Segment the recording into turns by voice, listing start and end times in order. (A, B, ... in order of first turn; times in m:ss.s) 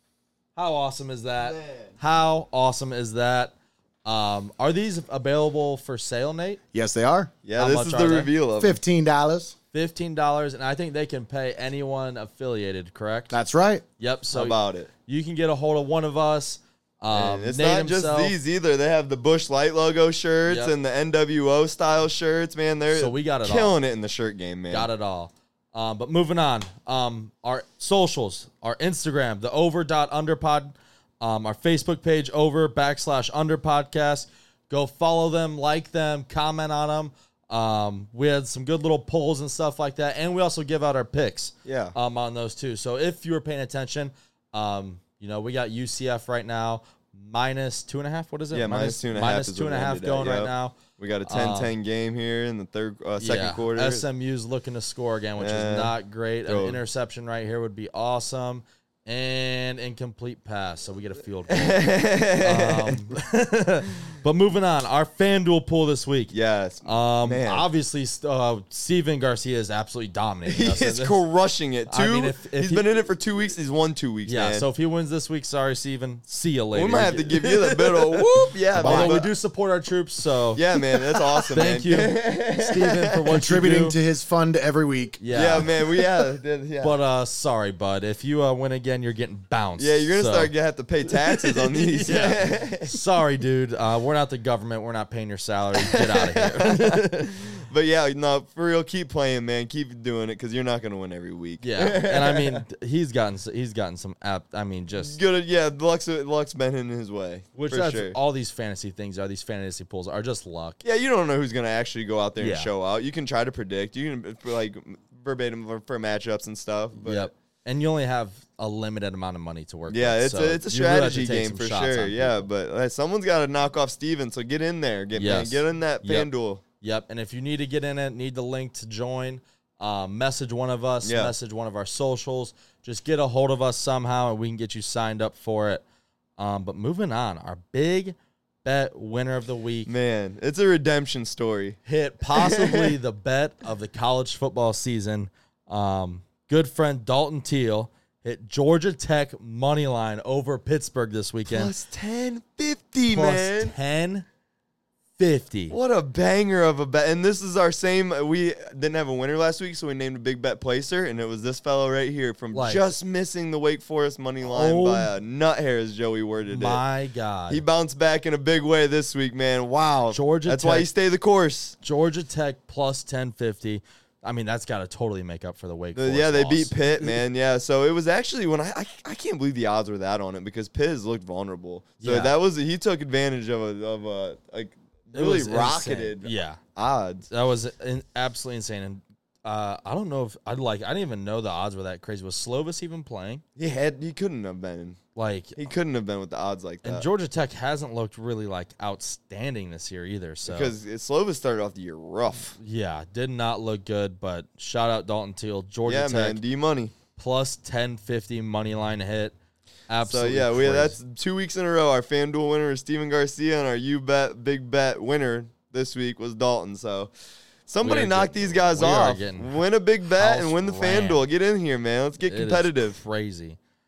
0:00.6-0:03.5 A
0:01.4-0:02.0 B
0:04.0-0:06.6 A
0:06.7-0:07.3 C
0:07.4-0:08.8 B
0:07.6-0:08.3 A
0:08.6-0:09.5 C
0:09.7-0:13.3 A
0:13.3-0:13.8 C
0:14.0-0:18.4 A
0:14.3-0:14.9 B
0:17.1-0:24.9 B
0:20.5-0:20.7 A
0:22.9-0:23.7 A
0:24.7-0:51.7 A
0:41.6-0:41.9 B
0:48.5-0:54.0 B
0:53.2-1:11.2 A
0:55.4-0:55.9 B
0:56.4-0:56.8 B
1:01.5-1:03.1 B
1:06.3-1:07.7 B
1:10.4-1:14.7 B
1:11.9-1:12.8 A
1:14.3-1:20.8 A
1:16.7-1:19.3 B
1:18.8-1:19.1 C
1:20.5-1:23.4 B
1:21.4-1:24.0 A
1:23.3-1:25.2 C
1:25.2-1:25.7 A
1:25.3-1:26.9 B
1:26.8-1:30.5 A
1:29.8-1:33.0 B
1:31.1-1:37.3 A
1:35.8-1:42.6 B
1:41.6-1:45.2 A
1:45.0-1:48.2 B
1:47.5-1:50.8 A
1:50.8-1:57.3 B
1:52.4-1:52.7 A
1:57.0-2:02.4 A
1:59.9-2:06.6 B
2:05.1-2:15.8 A
2:11.0-2:11.3 B
2:16.4-2:19.9 A
2:19.8-2:21.8 B
2:21.8-2:31.7 A
2:22.3-2:23.0 B
2:31.5-2:33.7 B
2:33.1-2:34.2 A
2:35.2-2:35.8 A
2:35.7-2:46.8 B
2:42.5-2:42.9 A
2:44.4-2:45.1 A
2:46.5-2:47.6 A
2:47.5-2:51.8 B
2:50.1-2:50.9 A
2:51.8-2:57.2 A
2:55.9-3:07.3 B
3:02.0-3:02.3 A
3:05.1-3:06.6 A
3:07.3-3:13.4 A
3:13.6-3:15.0 B
3:15.1-3:15.7 A
3:15.6-3:17.1 B
3:16.8-3:20.7 A
3:20.4-3:22.6 B
3:22.6-3:26.4 A
3:25.8-3:26.9 B
3:27.2-3:29.3 A
3:29.9-3:31.0 A
3:30.0-3:37.1 B
3:37.7-3:43.0 B
3:37.8-3:39.6 A
3:40.1-3:41.2 A
3:42.3-3:43.6 A